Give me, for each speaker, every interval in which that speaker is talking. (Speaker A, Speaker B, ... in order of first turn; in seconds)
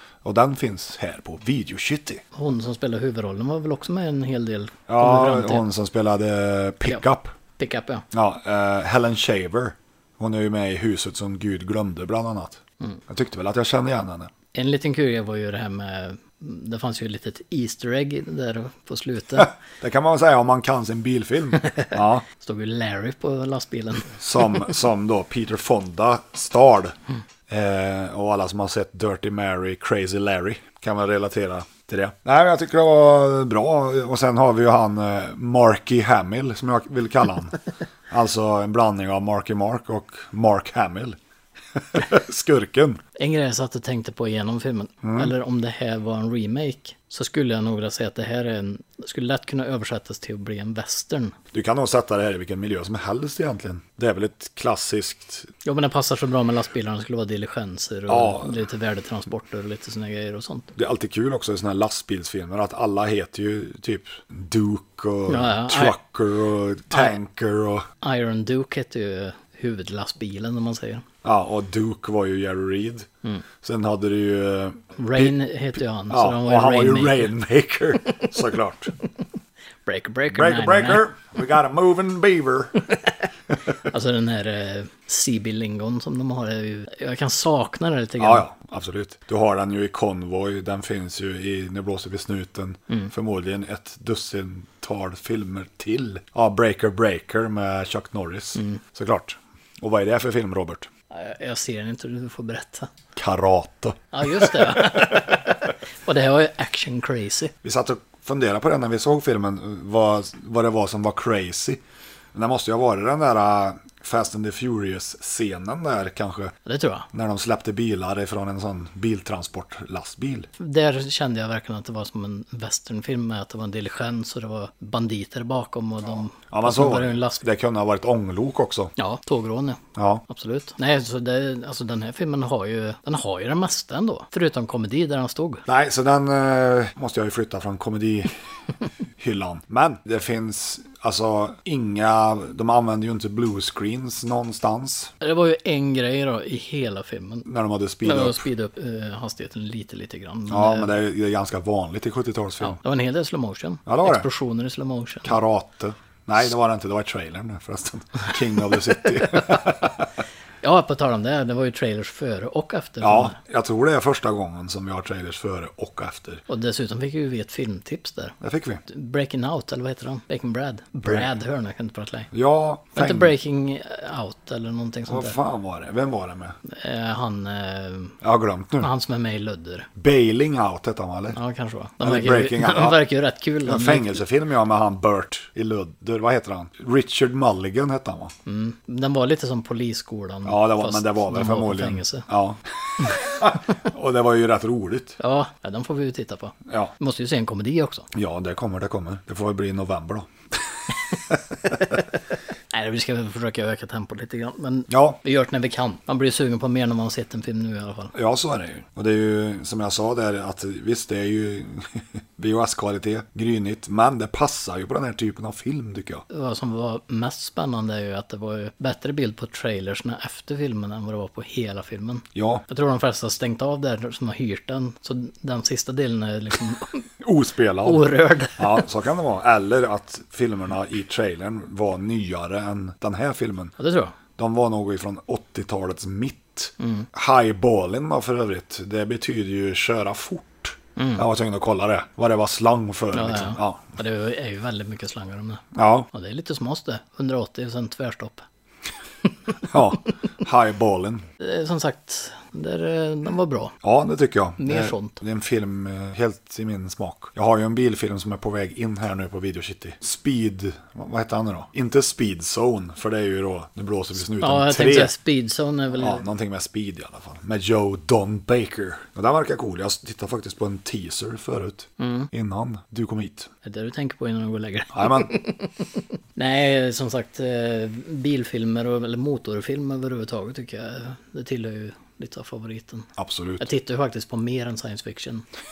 Speaker A: 0.2-2.2, 4.9-7.3, 8.1-14.3, 19.4-22.2, 24.2-27.0, 27.5-37.6, 38.1-41.2, 41.8-43.0, 45.0-45.3, 51.5-55.5, 58.1-58.5, 60.8-67.9, 71.2-73.1, 73.6-75.4, 76.1-78.9, 80.3-82.8, 88.2-100.9, 103.2-105.4, 107.6-111.8, 112.3-116.5, 117.1-120.5, 126.5-128.9, 130.0-130.2, 135.7-138.3, 139.2-145.1, 147.5-148.4, 150.5-152.8, 153.9-154.3, 155.2-160.1, 163.0-166.4, 168.4-168.8, 172.3-173.3, 175.1-176.6, 178.2-178.9, 180.0-181.4, 182.0-183.0, 183.7-188.3, 190.4-195.2, 196.7-196.9, 198.1-200.6, 204.9-205.2, 208.1-216.2, 222.3-222.6, 227.2-233.7, 234.4-243.9, 245.7-246.1, 249.7-251.2, 253.8-265.1, 266.0-273.5, 274.9-275.4, 283.2-283.6
Speaker B: 2.3-5.7, 7.6-8.1, 14.5-19.5, 21.7-24.1, 43.2-51.4, 55.6-60.7, 65.3-66.0, 68.0-71.0, 75.0-77.3, 79.9-81.1, 83.9-88.5, 98.6-98.8, 101.1-102.9, 104.1-107.5, 116.7-117.1, 120.6-127.4, 129.0-135.6, 145.2-147.5, 148.0-150.9, 152.6-155.4, 160.6-163.4, 166.5-168.4, 168.9-172.3, 172.9-175.4, 176.7-178.2, 178.8-179.9, 181.3-184.2, 188.5-192.3, 195.2-198.1, 202.7-208.1, 216.3-227.1, 227.8-228.8, 233.8-234.2, 236.8-237.1, 241.0-241.2, 243.1-248.4, 251.4-253.8, 254.6-255.2, 264.4-266.2, 272.0-272.3, 273.6-275.8, 276.4-285.4